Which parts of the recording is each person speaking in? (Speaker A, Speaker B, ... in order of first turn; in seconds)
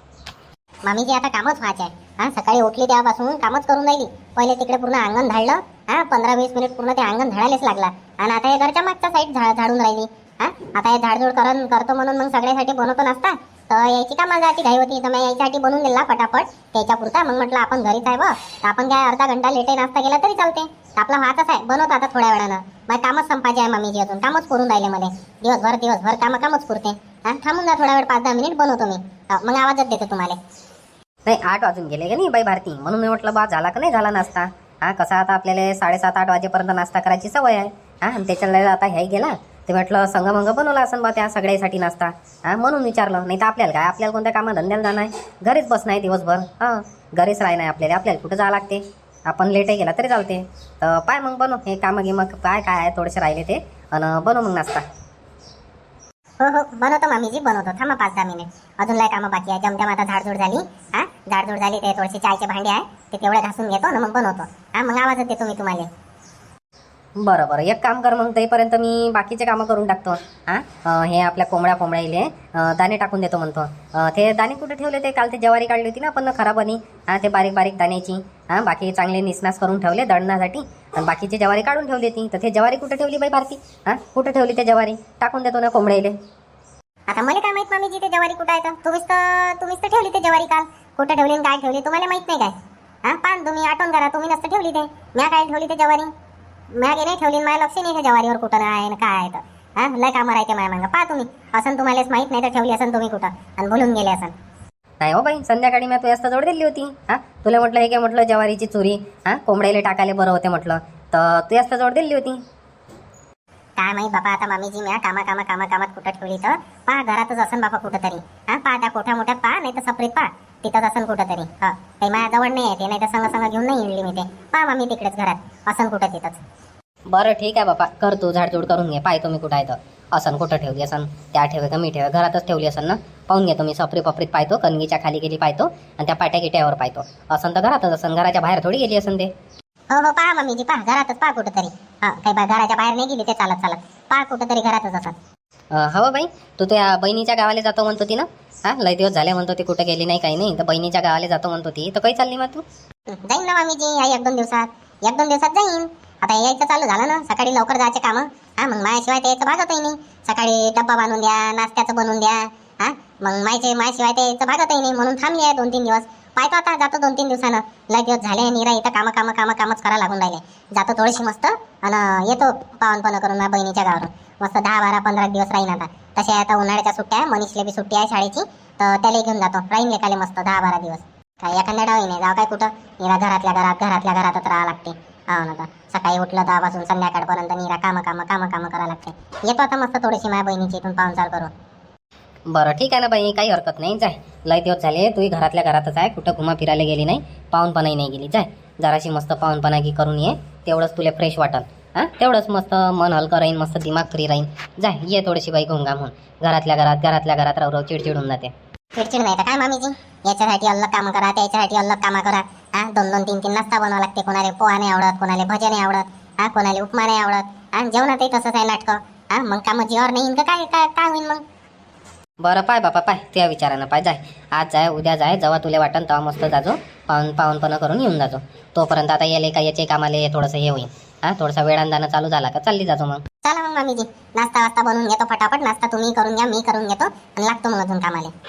Speaker A: 0.9-30.4, 56.4-65.9, 87.1-92.5, 93.0-96.1, 96.8-104.3, 113.8-126.4, 139.9-145.1, 153.1-191.5, 209.0-221.4, 233.4-238.3
Speaker B: 31.2-54.8, 67.2-86.2, 105.0-112.4, 127.1-139.3, 145.7-152.6, 192.5-208.5, 222.4-233.2